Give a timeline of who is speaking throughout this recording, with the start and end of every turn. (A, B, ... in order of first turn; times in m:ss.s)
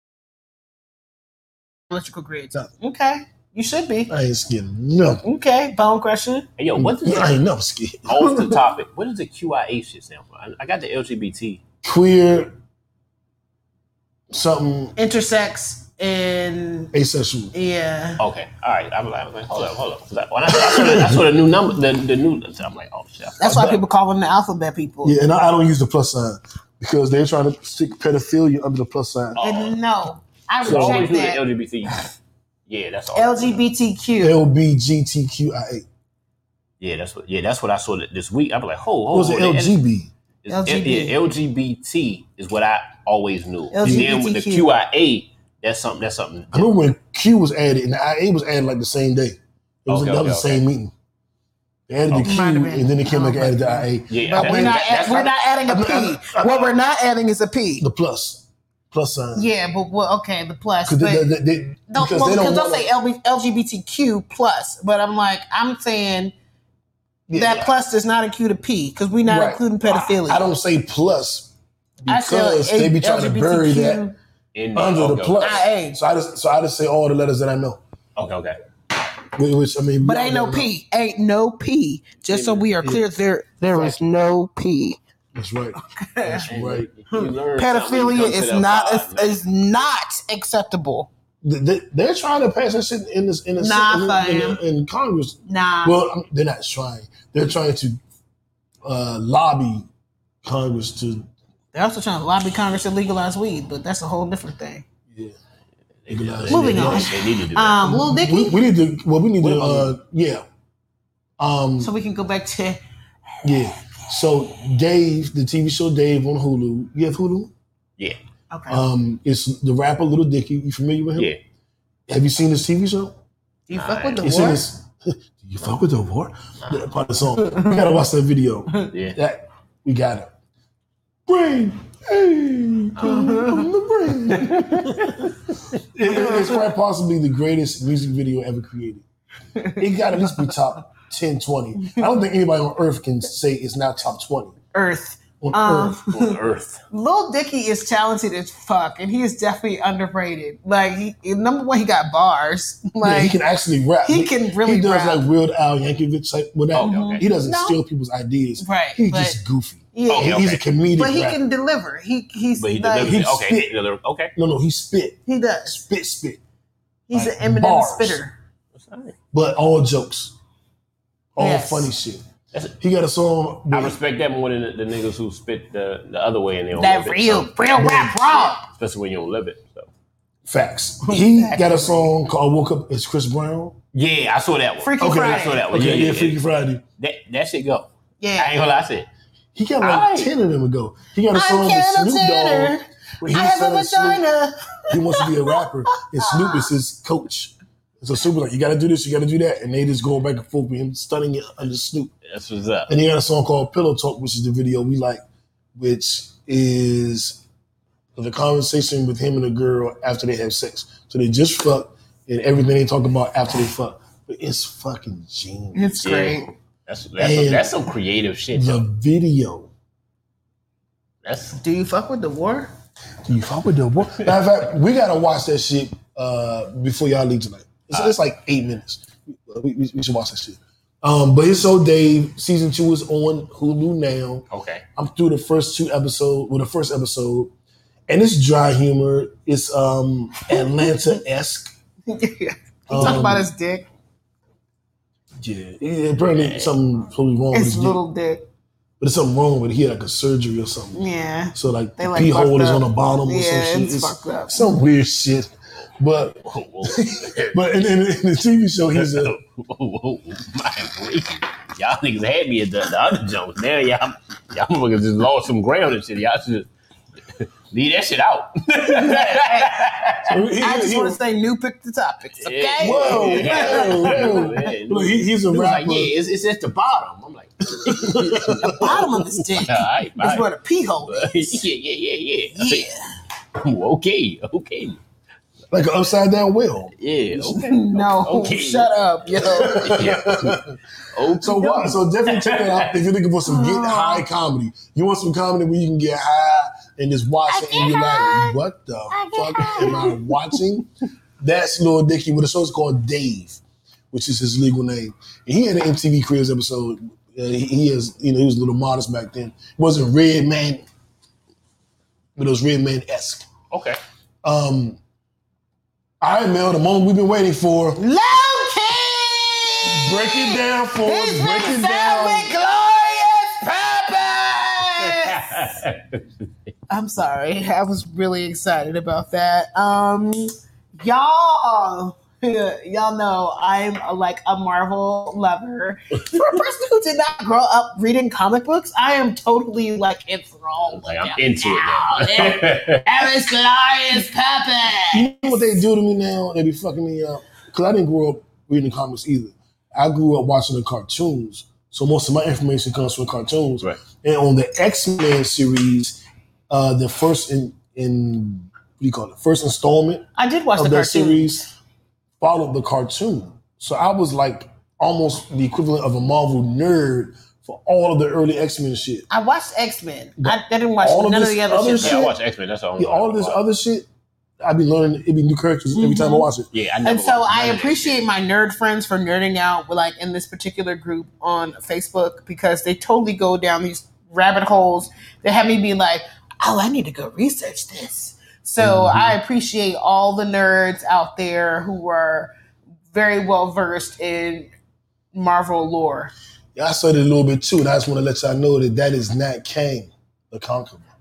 0:01.9-0:04.1 A
0:04.1-0:05.2 B
0:05.2-0:06.5 A
0:06.6-0:07.4 C
0:06.8-0:08.6 B
0:08.1-0:11.6 C
0:11.8-0:12.5 B
0:14.3-0:15.0 B
0:15.0-0:16.9 A
0:16.9-0:17.5 B
0:17.5-0:18.2 A
0:18.2-0:23.4 C
0:20.5-0:21.2 B
0:23.4-0:25.2 A
0:23.4-0:23.8 B
0:25.0-0:29.4 B
0:29.3-0:29.8 C
0:29.4-0:31.4 A
0:30.6-0:32.1 C
0:30.6-0:31.1 B
0:32.7-0:33.6 C
0:33.1-0:34.4 A
0:34.2-0:35.8 B
0:36.8-0:39.8 C
0:39.1-0:40.1 B
0:40.4-0:46.7 C
0:40.5-0:41.2 A
0:43.7-0:44.8 A
0:43.8-0:44.1 B
0:46.5-0:50.9 B
0:49.9-0:50.6 C
0:51.9-0:56.7 B
0:52.1-0:52.3 C
0:52.2-0:57.8 A
0:54.1-0:55.3 C
0:57.8-0:59.5 B
0:59.3-1:01.3 A
1:00.8-1:02.9 B
1:01.9-1:06.3 A
1:07.3-1:07.7 B
1:07.3-1:10.5 A
1:09.2-1:14.1 B
1:12.1-1:14.1 A
1:14.5-1:15.6 C
1:14.7-1:17.8 B
1:15.4-1:16.0 A
1:18.2-1:18.6 C
1:19.4-1:20.7 B
1:20.0-1:25.0 A
1:22.3-1:22.7 C
1:23.7-1:24.0 B
1:25.3-1:26.9 B
1:25.9-1:26.5 A
1:26.5-1:29.4 C
1:27.1-1:31.1 A
1:31.4-1:38.0 B
1:33.6-1:34.6 A
1:35.4-1:36.0 A
1:38.8-1:39.9 B
1:40.4-1:41.3 B
1:41.7-1:44.8 A
1:45.1-1:45.4 B
1:46.0-1:47.8 C
1:46.1-1:47.1 B
1:46.5-1:48.6 A
1:47.8-1:50.4 B
1:49.4-1:49.8 C
1:51.4-1:51.9 B
1:51.8-1:52.8 A
1:53.4-1:57.5 B
1:58.5-1:58.8 A
1:58.7-2:01.3 B
2:02.1-2:03.2 B
2:03.7-2:04.6 A
2:03.7-2:04.2 C
2:04.2-2:10.3 B
2:08.9-2:09.2 C
2:11.2-2:15.1 B
2:12.9-2:13.3 C
2:13.0-2:13.7 A
2:14.4-2:15.2 C
2:15.9-2:19.0 B
2:16.1-2:16.6 A
2:19.8-2:24.6 B
2:24.7-2:26.4 A
2:25.4-2:26.0 B
2:26.1-2:26.8 C
2:26.9-2:33.4 A
2:33.0-2:41.4 B
2:34.0-2:35.2 A
2:36.7-2:37.2 C
2:36.8-2:37.8 A
2:38.6-2:39.4 A
2:39.9-2:40.4 A
2:40.1-2:40.6 C
2:41.0-2:43.2 A
2:42.5-2:44.3 C
2:43.0-2:43.7 B
2:44.4-2:46.4 B
2:45.3-2:45.8 A
2:47.1-2:48.3 A
2:47.1-2:48.2 B
2:48.8-2:49.1 C
2:49.3-2:50.3 B
2:51.3-2:52.2 B
2:51.4-2:51.9 A
2:52.8-2:54.0 B
2:53.7-2:57.5 C
2:56.7-2:58.7 A
2:57.7-2:58.2 B
2:58.3-2:59.9 C
3:00.4-3:03.8 B
3:01.1-3:01.8 A
3:03.9-3:06.4 C
3:04.8-3:05.9 A
3:05.0-3:06.8 B
3:07.0-3:09.1 C
3:08.2-3:08.5 A
3:09.5-3:14.2 B
3:09.8-3:10.3 C
3:11.3-3:15.6 A
3:14.9-3:22.1 B
3:16.2-3:16.7 A
3:22.3-3:22.9 C
3:22.9-3:25.2 B
3:25.8-3:27.4 B
3:28.2-3:35.9 B
3:35.7-3:36.5 A
3:36.0-3:38.8 C
3:37.2-3:37.7 B
3:38.5-3:39.7 B
3:41.2-3:41.6 C
3:41.5-3:42.7 A
3:43.2-3:57.5 B
3:54.5-3:54.8 C
3:58.1-4:01.7 B
4:00.5-4:00.9 A
4:02.1-4:03.9 A
4:02.9-4:03.5 B
4:05.4-4:08.0 B
4:06.3-4:06.7 C
4:07.5-4:08.4 A
4:09.0-4:19.3 B
4:10.9-4:14.7 A
4:16.5-4:17.5 C
4:18.9-4:26.7 C
4:27.4-4:30.4 C
4:28.9-4:29.7 A
4:30.3-4:31.2 B
4:30.6-4:34.5 A
4:32.4-4:40.4 C
4:32.8-4:36.1 B
4:37.8-4:39.1 B
4:38.7-4:41.6 A
4:41.0-4:42.9 C
4:42.5-4:43.0 A
4:43.6-4:45.0 C
4:45.7-4:47.6 B
4:47.0-4:48.9 C
4:47.5-4:50.0 A
4:49.4-4:50.6 C
4:49.6-4:50.7 B
4:51.1-4:52.9 C
4:51.3-5:00.9 B
4:53.4-4:54.2 A
4:57.5-4:58.6 A
4:59.1-5:00.2 A
5:01.4-5:03.6 B
5:04.1-5:10.8 B
5:12.4-5:13.5 B
5:13.7-5:14.0 C
5:14.4-5:15.0 B
5:16.2-5:18.0 B
5:18.0-5:25.6 A
5:19.8-5:22.6 B
5:25.0-5:26.2 C
5:26.9-5:45.8 A
5:40.8-5:43.0 C
5:45.1-6:01.6 B
6:00.4-6:01.7 A
6:02.4-6:09.3 B
6:09.3-6:12.3 A
6:10.4-6:12.3 B
6:12.0-6:13.6 C
6:13.0-6:14.1 B
6:14.6-6:16.7 B
6:16.0-6:16.5 A
6:16.7-6:18.2 C
6:17.0-6:32.5 A
6:28.8-6:29.4 B
6:33.1-6:34.7 A
6:35.3-6:36.3 A
6:36.7-6:41.1 B